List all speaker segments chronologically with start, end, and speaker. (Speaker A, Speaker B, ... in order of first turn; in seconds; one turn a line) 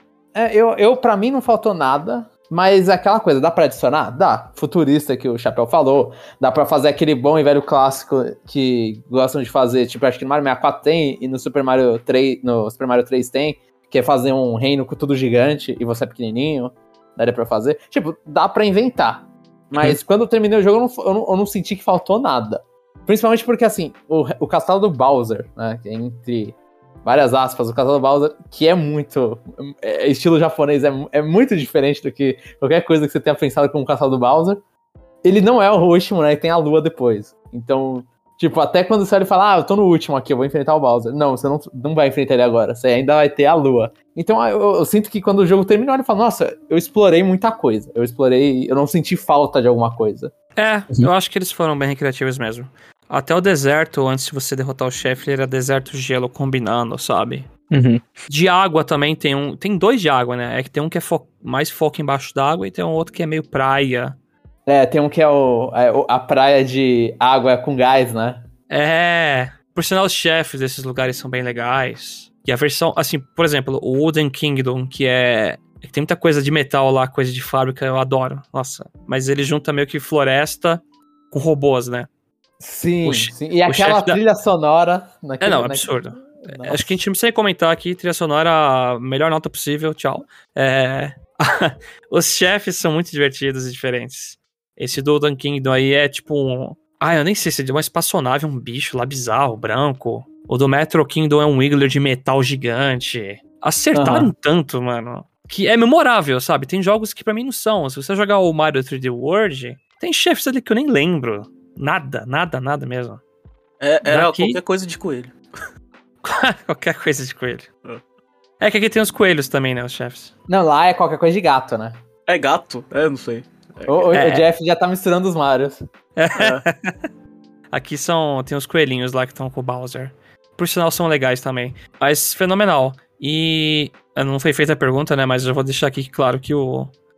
Speaker A: 0.3-34.6
Speaker A: 35.2-50.3
Speaker B: 50.5-57.5
Speaker C: 57.7-58.0
Speaker B: 58.3-64.2
Speaker A: 64.7-68.5
Speaker B: 68.7-82.1
Speaker A: 82.6-87.0
Speaker B: 83.0-84.2
Speaker B: 85.4-113.2
Speaker A: 103.9-104.3
Speaker C: 113.8-115.3
Speaker B: 114.0-114.6
Speaker B: 116.2-117.7
Speaker B: 118.6-120.3
Speaker A: 120.5-122.0
Speaker C: 122.3-124.1
Speaker A: 123.9-125.8
Speaker B: 124.1-124.4
Speaker B: 126.2-127.0
Speaker C: 126.3-126.6
Speaker B: 127.7-136.9